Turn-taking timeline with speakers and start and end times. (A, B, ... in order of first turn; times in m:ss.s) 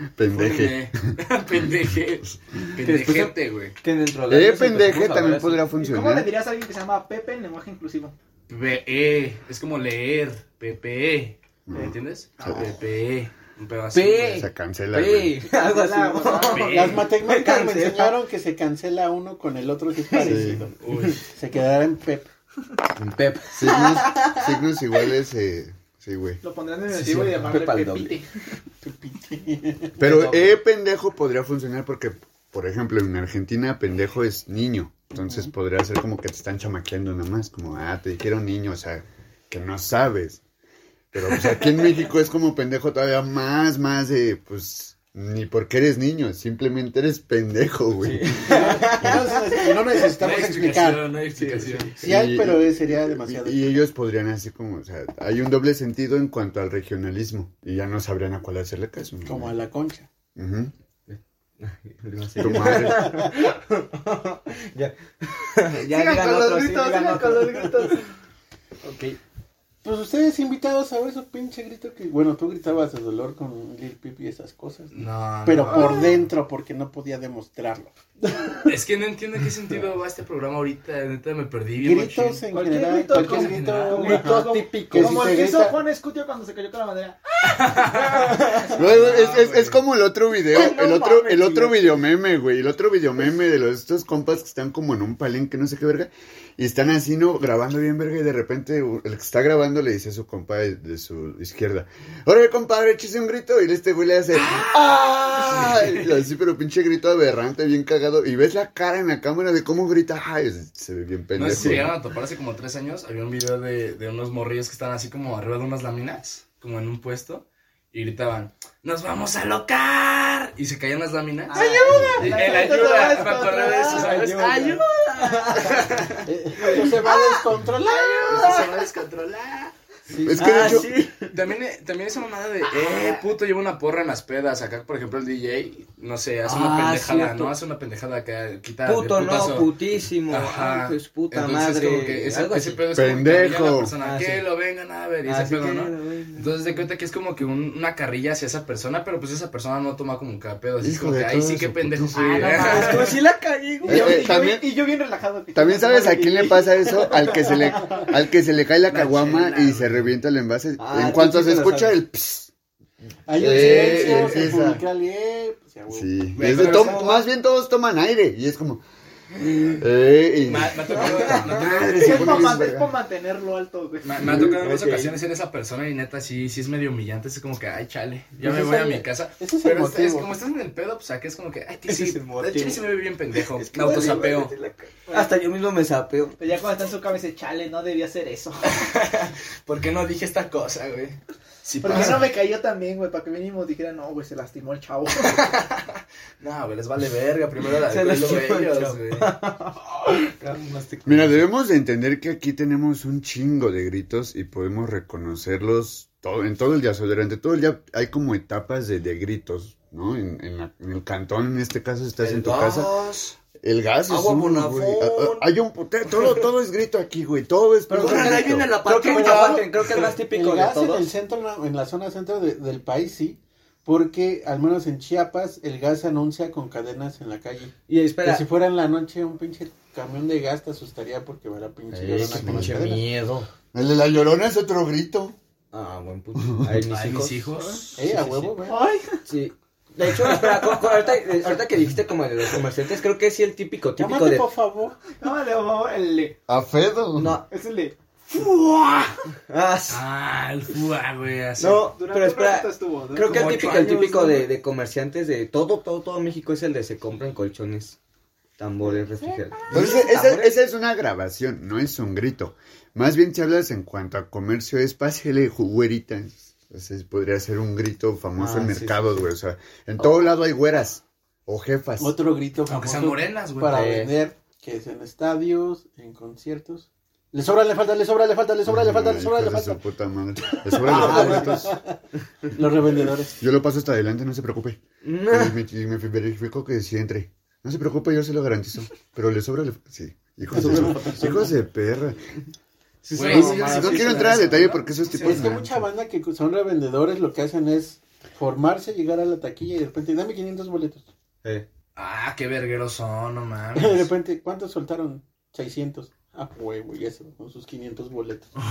0:00.2-0:00.9 A
0:00.3-0:03.7 B
0:02.8-0:05.6 C
0:04.3-0:06.3 A
0:05.8-0:08.1 D
0:08.5-0:14.4 B
0:11.7-0:12.7 A
0:13.9-0:18.2 C
0:14.3-0:15.3 A
0:15.5-0:16.9 D
0:16.2-0:17.1 B
0:16.7-0:22.3 E
0:20.1-0:20.4 C
0:20.2-0:20.7 A
0:20.8-0:21.2 B
0:23.0-0:24.5 C
0:23.5-0:26.4 A
0:26.4-0:28.3 D
0:26.9-0:28.2 C
0:27.0-0:27.4 B
0:28.8-0:30.0 E
0:30.0-0:30.5 C
0:30.0-0:40.4 A
0:41.1-0:49.2 A
0:41.3-0:41.7 C
0:48.0-0:50.1 C
0:48.5-0:51.0 E
0:50.2-0:51.9 B
0:51.3-0:52.0 C
0:52.0-0:53.8 E
0:52.0-0:59.5 A
0:59.2-1:00.1 E
1:00.3-1:00.7 A
1:01.1-1:08.0 C
1:02.4-1:03.3 A
1:02.5-1:03.3 E
1:05.7-1:08.0 D
1:08.8-1:09.2 C
1:09.8-1:14.9 E
1:14.9-1:16.3 B
1:15.4-1:18.7 E
1:18.6-1:22.4 B
1:21.8-1:25.8 E
1:22.5-1:28.8 D
1:23.1-1:24.1 B
1:23.9-1:25.3 C
1:27.4-1:29.8 B
1:27.9-1:28.8 C
1:28.7-1:51.9 A
1:30.5-1:31.8 C
1:44.3-1:46.1 B
1:51.4-2:06.2 B
2:01.5-2:04.1 D
2:01.5-2:07.4 C
2:06.2-2:08.5 E
2:08.1-2:08.6 D
2:08.2-2:08.7 C
2:08.2-2:09.7 B
2:10.1-2:10.8 E
2:10.2-2:10.9 A
2:10.3-2:11.4 C
2:11.3-2:19.7 B
2:12.8-2:13.1 C
2:16.4-2:17.5 C
2:18.8-2:22.8 C
2:20.3-2:33.2 B
2:22.9-2:23.9 A
2:24.0-2:24.4 C
2:25.2-2:26.5 C
2:30.8-2:32.2 A
2:32.1-2:33.2 D
2:32.5-2:34.4 C
2:33.8-2:38.1 D
2:33.9-2:34.6 A
2:35.5-2:42.5 A
2:38.9-2:39.9 B
2:40.8-2:42.0 C
2:43.3-2:46.1 E
2:43.3-2:44.8 A
2:43.4-2:44.4 B
2:45.9-2:48.8 A
2:46.3-2:47.2 B
2:46.4-2:47.2 C
2:49.7-2:52.9 A
2:50.4-2:52.4 B
2:50.9-2:51.6 C
2:51.8-2:54.3 D
2:54.0-3:04.5 B
2:54.2-2:55.2 C
2:58.4-3:00.3 E
3:01.9-3:02.8 C
3:03.4-3:06.4 C
3:05.1-3:05.3 D
3:06.4-3:08.7 D
3:08.6-3:12.3 B
3:11.8-3:15.4 D
3:15.2-3:19.3 B
3:17.8-3:21.4 C
3:21.0-3:38.7 A
3:32.2-3:33.3 C
3:34.1-3:35.5 C
3:37.9-3:41.1 C
3:38.0-3:39.9 B
3:39.0-3:53.0 E
3:47.9-3:48.5 C
3:51.9-3:53.5 C
3:52.2-3:52.8 A
3:53.7-3:55.4 A
3:55.7-3:57.5 C
3:56.9-3:58.6 B
3:58.0-3:58.8 E
3:58.6-3:59.2 D
3:59.3-4:04.5 C
4:00.0-4:01.1 B
4:04.0-4:05.0 E
4:05.1-4:06.4 D
4:06.5-4:07.3 A
4:07.2-4:07.4 C
4:07.5-4:08.0 D
4:08.8-4:09.1 D
4:09.5-4:10.0 C
4:09.9-4:11.8 B
4:11.6-4:18.0 C
4:11.8-4:13.6 D
4:13.2-4:14.5 B
4:18.6-4:20.6 C
4:19.7-4:32.1 A
4:28.4-4:29.3 C
4:32.0-4:39.8 E
4:32.7-4:33.8 B
4:33.7-4:34.2 C
4:38.6-4:41.7 A
4:40.7-4:42.0 E
4:40.8-4:41.7 C
4:42.5-4:43.4 E
4:43.4-4:52.2 A
4:45.0-4:45.6 C
4:50.5-4:51.6 C
4:50.6-4:51.1 E
4:53.0-4:54.7 C
4:53.1-4:55.5 B
4:53.2-4:55.7 A
4:55.2-5:01.0 E
5:02.0-5:04.1 B
5:03.7-5:08.5 E